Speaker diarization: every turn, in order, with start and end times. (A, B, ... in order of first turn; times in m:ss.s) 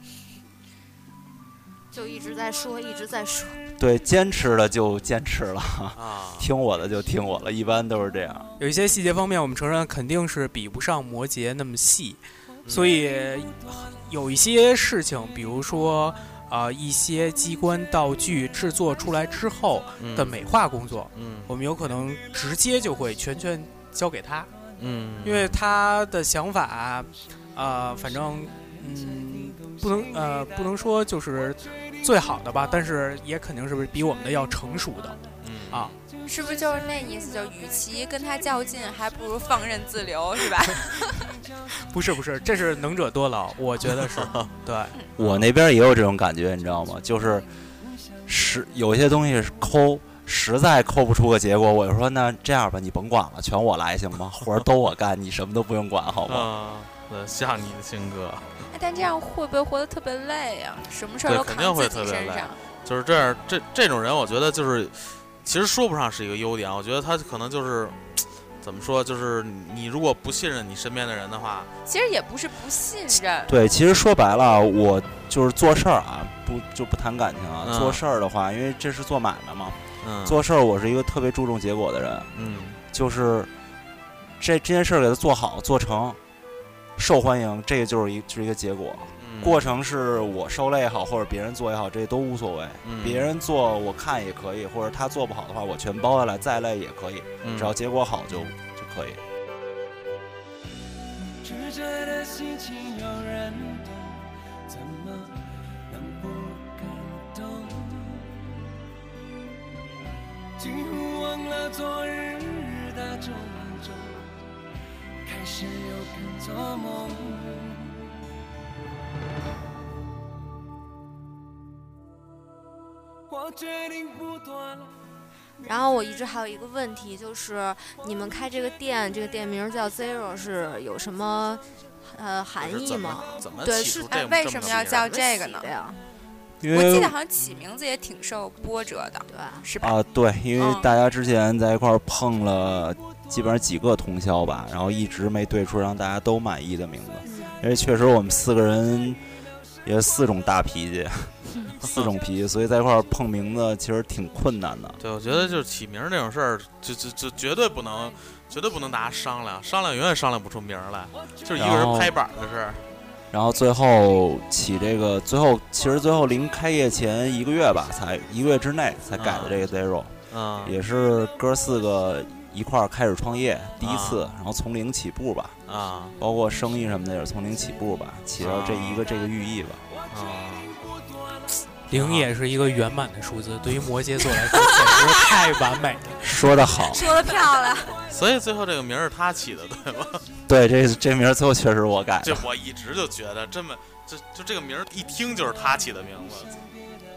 0:01.9-0:03.6 A
0:03.8-0:08.5 B
0:05.9-0:06.5 C
0:08.6-0:24.5 D
0:12.6-0:13.0 C
0:20.0-0:20.5 C
0:21.1-0:21.5 C
0:24.8-0:25.5 C
0:25.2-0:35.2 D
0:35.4-0:35.9 C
0:36.2-0:41.3 E
0:41.9-0:44.9 D
0:44.2-0:44.5 C
0:45.2-0:47.4 B
0:48.2-0:56.5 B
0:56.3-0:58.5 C
0:58.7-1:02.6 E
1:01.2-1:11.7 C
1:11.9-1:13.5 E
1:13.5-1:22.3 B
1:17.6-1:18.0 C
1:20.0-1:20.4 C
1:22.3-1:22.8 C
1:22.9-1:23.5 B
1:24.4-1:26.2 B
1:27.0-1:39.2 B
1:29.2-1:29.7 C
1:32.8-1:33.3 C
1:37.4-1:37.7 C
1:41.4-1:45.4 F
1:45.9-1:48.2 F
1:50.6-1:54.3 F
1:55.2-1:57.9 F
2:03.3-2:04.9 F
2:05.6-2:14.1 A
2:12.6-2:15.2 C
2:14.0-2:15.7 E
2:15.0-2:16.0 A
2:16.6-2:17.1 B
2:16.7-2:20.0 E
2:19.3-2:19.7 A
2:19.8-2:29.2 B
2:20.6-2:20.9 E
2:27.2-2:27.6 A
2:29.8-2:35.0 B
2:35.0-2:42.8 C
2:41.5-2:42.2 B
2:43.3-2:50.1 B
2:49.2-2:49.7 C
2:50.3-2:50.8 C
2:50.6-2:55.6 B
2:53.8-2:54.2 C
2:55.7-2:56.2 C
2:56.2-2:59.8 B
2:58.4-2:59.1 C
3:00.1-3:00.7 C
3:01.9-3:06.2 D
3:01.9-3:02.3 C
3:06.2-3:07.1 B
3:06.9-3:08.0 A
3:08.1-3:10.2 C
3:10.5-3:12.4 B
3:12.2-3:16.6 C